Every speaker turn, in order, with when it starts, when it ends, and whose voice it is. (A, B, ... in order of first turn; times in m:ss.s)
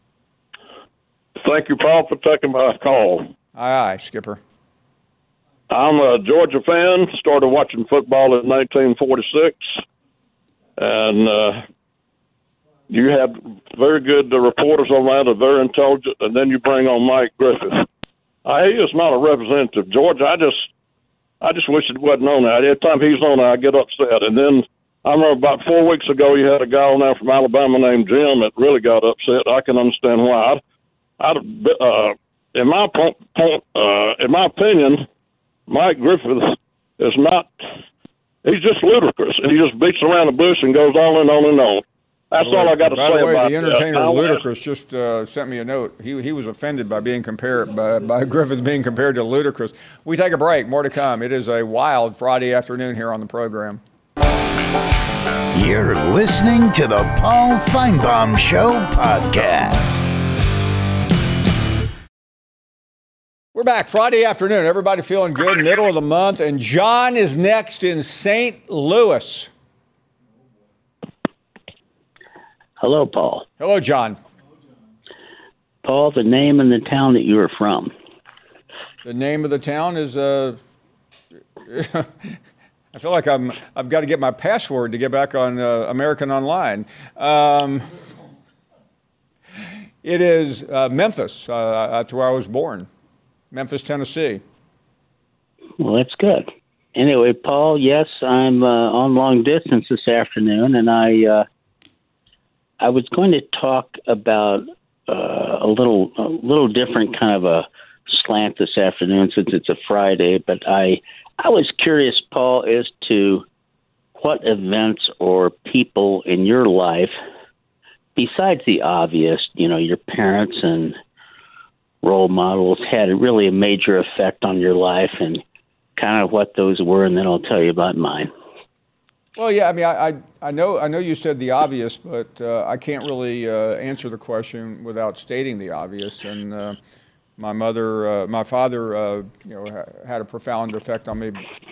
0:01.4-0:03.3 A
0:03.5-0:04.4 B
0:05.7-0:09.8 A
0:10.8-0:11.6 A
0:12.9-0:17.9 A
0:18.4-0:20.7 A
0:21.4-0:30.6 A
0:31.2-0:35.0 A
0:35.7-0:37.5 A
0:38.4-0:44.4 A
0:42.4-0:53.8 B
0:55.5-1:00.0 C
1:03.5-1:09.5 B
1:12.8-1:13.4 D
1:13.6-1:14.2 B
1:15.8-1:17.9 D
1:19.0-1:20.6 B
1:21.6-1:22.4 B
1:22.9-1:28.0 B
1:30.0-1:32.9 B
1:33.5-1:34.4 B
1:35.8-1:41.4 D
1:42.8-1:53.4 D
1:54.2-1:57.1 D
1:58.2-2:01.0 D
2:02.0-2:05.4 D
2:06.0-2:08.3 D
2:09.4-2:16.8 B
2:17.4-2:21.4 B